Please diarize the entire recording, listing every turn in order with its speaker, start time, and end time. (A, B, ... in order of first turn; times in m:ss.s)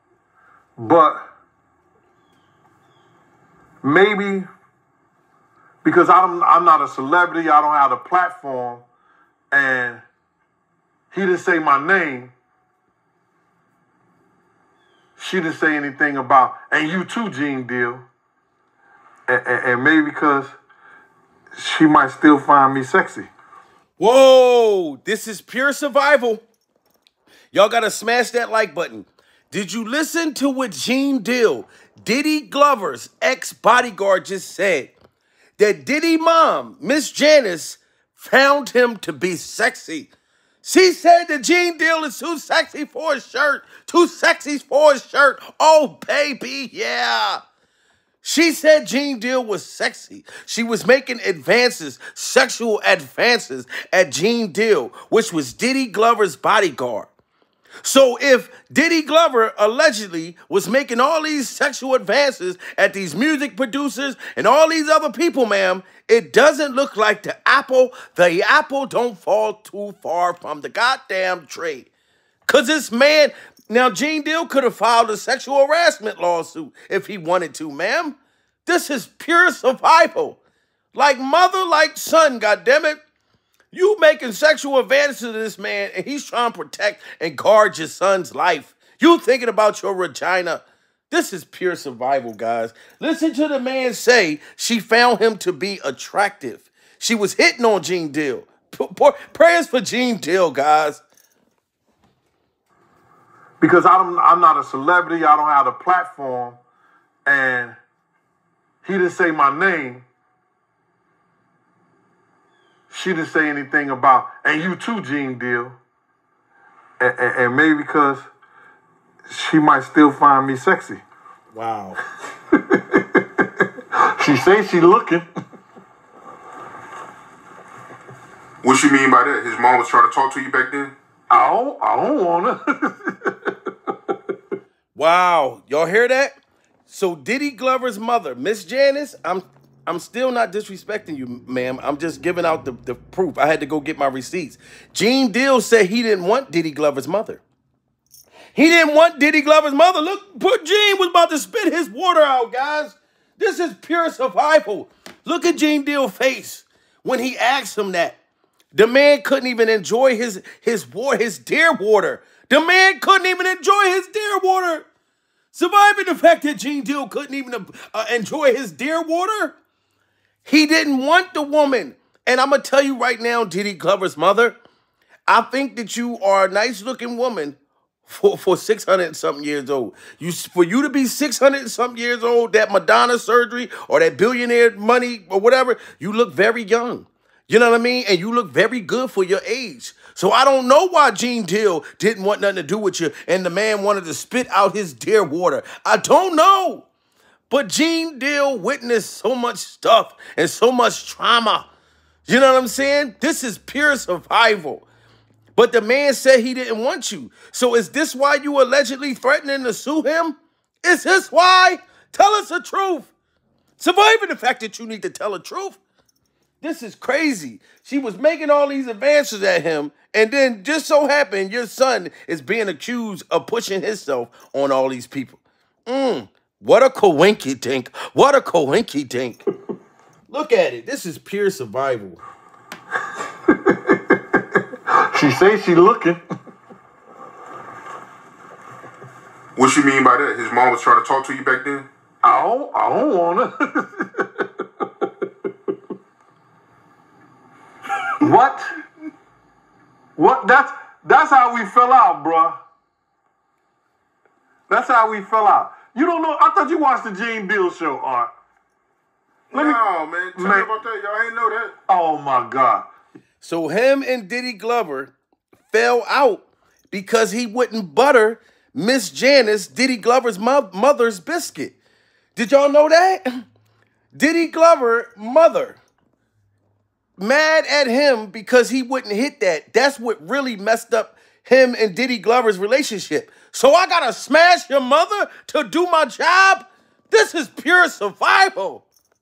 0:00.8-0:01.3 A
0:03.8-0:04.5 A
0:05.8-0:08.8 A
0:09.5-0:10.0 A
0:11.1-0:12.3 A
0:15.2-0:18.0 A
0:19.3-0:20.5 A
0:21.6-0:23.3 A
0:24.0-0:26.4 B
0:27.5-0:34.9 B
0:35.6-0:40.1 B
0:40.6-0:47.4 B
0:48.2-0:57.1 B
0:57.8-1:11.9 B
1:12.5-1:20.4 B
1:20.9-1:23.0 B
1:23.7-1:41.0 B
1:43.6-1:46.6 A
1:47.2-1:47.8 A
1:48.8-1:50.0 A
1:52.9-1:55.8 A
1:57.0-1:58.3 A
1:59.3-2:01.0 A
2:01.5-2:02.0 B
2:02.5-2:05.3 A
2:08.6-2:10.9 C
2:11.3-2:14.2 A
2:14.9-2:16.3 B
2:16.9-2:27.4 B
2:28.5-2:38.2 B
2:38.7-2:44.8 B
2:45.5-2:49.6 B
2:50.4-2:54.6 B
2:55.3-3:16.9 B
3:17.5-3:21.7 B
3:22.3-3:24.9 B
3:25.6-3:33.1 B
3:33.8-3:35.8 B
3:36.6-3:49.4 B
3:50.3-3:52.2 B
3:53.5-3:56.2 A
3:59.6-4:01.9 C
4:02.2-4:05.5 A
4:08.2-4:08.7 A
4:10.2-4:12.6 A
4:14.7-4:18.3 A
4:19.5-4:21.7 C
4:19.5-4:19.8 A
4:20.4-4:20.7 A
4:21.9-4:22.9 A
4:23.4-4:25.1 B
4:25.7-4:31.8 B
4:32.4-4:33.4 B
4:34.1-4:35.8 B
4:37.2-4:48.8 B